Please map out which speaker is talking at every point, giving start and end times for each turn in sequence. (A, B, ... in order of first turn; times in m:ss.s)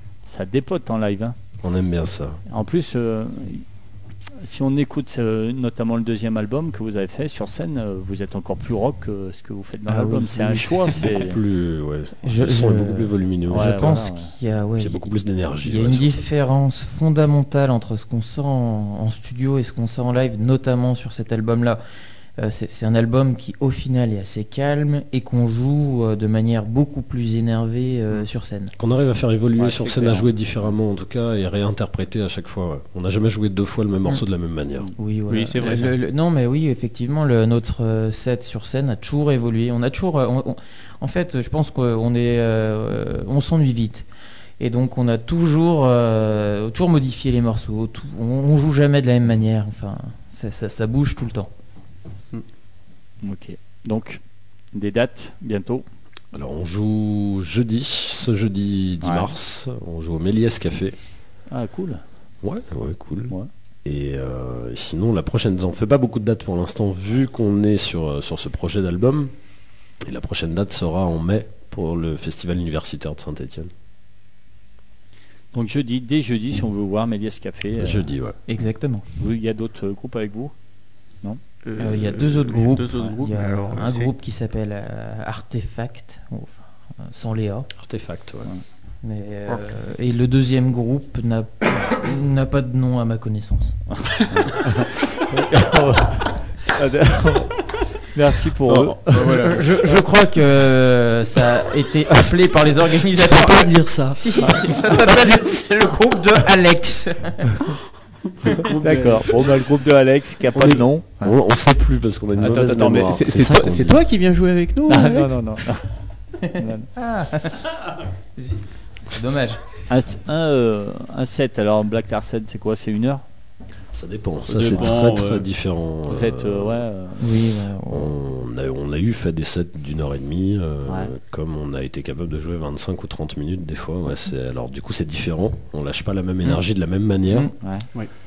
0:00.2-0:01.4 A
0:01.6-0:02.4 B
0:02.5-0:03.6 A
0:04.4-0:11.4 A
0:10.3-0:14.0 B
0:12.2-0:15.0 C
0:13.5-0:14.3 A
0:14.8-0:16.3 B
0:15.6-0:21.8 C
0:22.4-0:28.7 C
0:28.8-0:34.9 B
0:29.6-0:30.2 A
0:35.0-0:44.1 C
0:35.3-0:35.9 D
0:44.6-0:51.5 C
0:53.2-0:54.2 A
0:54.7-0:55.8 A
0:56.3-1:01.0 B
0:59.0-0:59.3 A
1:01.5-1:02.0 A
1:02.4-1:03.3 B
1:03.8-1:09.3 B
1:10.0-1:13.7 B
1:15.5-1:18.1 A
1:17.8-1:18.4 B
1:18.5-1:19.1 C
1:19.2-1:20.5 A
1:21.6-1:24.1 D
1:21.8-1:27.7 C
1:27.8-1:28.5 B
1:29.0-1:33.8 C
1:33.9-1:39.4 A
1:38.7-1:39.7 D
1:39.2-1:47.8 C
1:43.0-1:44.7 B
1:48.5-1:49.4 D
1:48.6-1:51.3 A
1:50.5-1:54.0 B
1:52.4-1:55.4 D
1:54.9-1:55.9 A
1:56.4-1:57.8 C
1:56.5-1:56.9 A
1:58.4-1:59.6 C
1:59.9-2:03.2 A
2:03.9-2:06.9 B
2:04.4-2:05.4 D
2:06.1-2:07.3 A
2:07.2-2:08.1 C
2:07.9-2:17.5 B
2:17.6-2:17.9 A